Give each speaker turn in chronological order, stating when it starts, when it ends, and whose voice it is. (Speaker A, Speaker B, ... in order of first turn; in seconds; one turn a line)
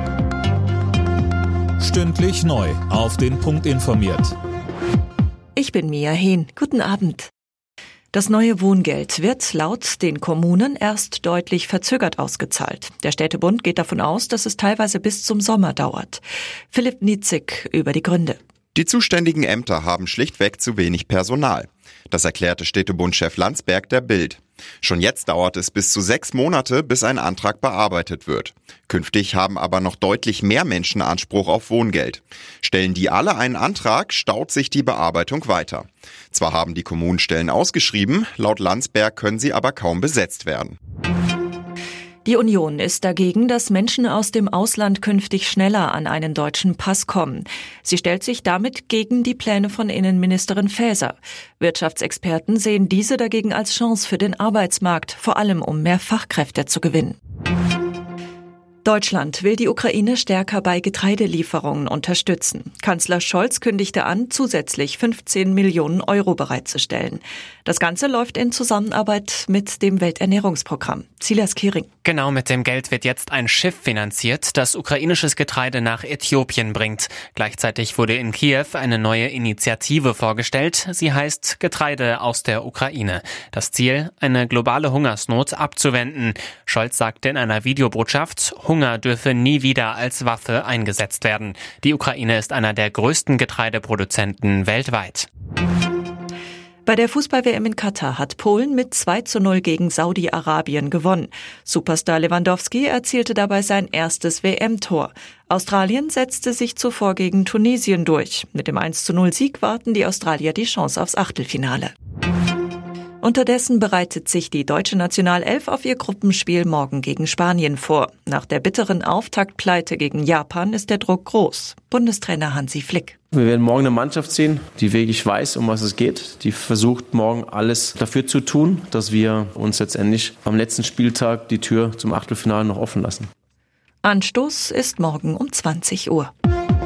Speaker A: 1.8-4.3
Speaker B: 5.5-7.3
Speaker B: 8.1-18.4
Speaker C: 18.7-40.8
Speaker B: 42.2-57.2
Speaker B: 58.8-71.9
Speaker D: 72.0-95.3
Speaker B: 96.8-111.9
Speaker B: 113.2-123.2
Speaker E: 123.3-133.3
Speaker B: 134.0-136.3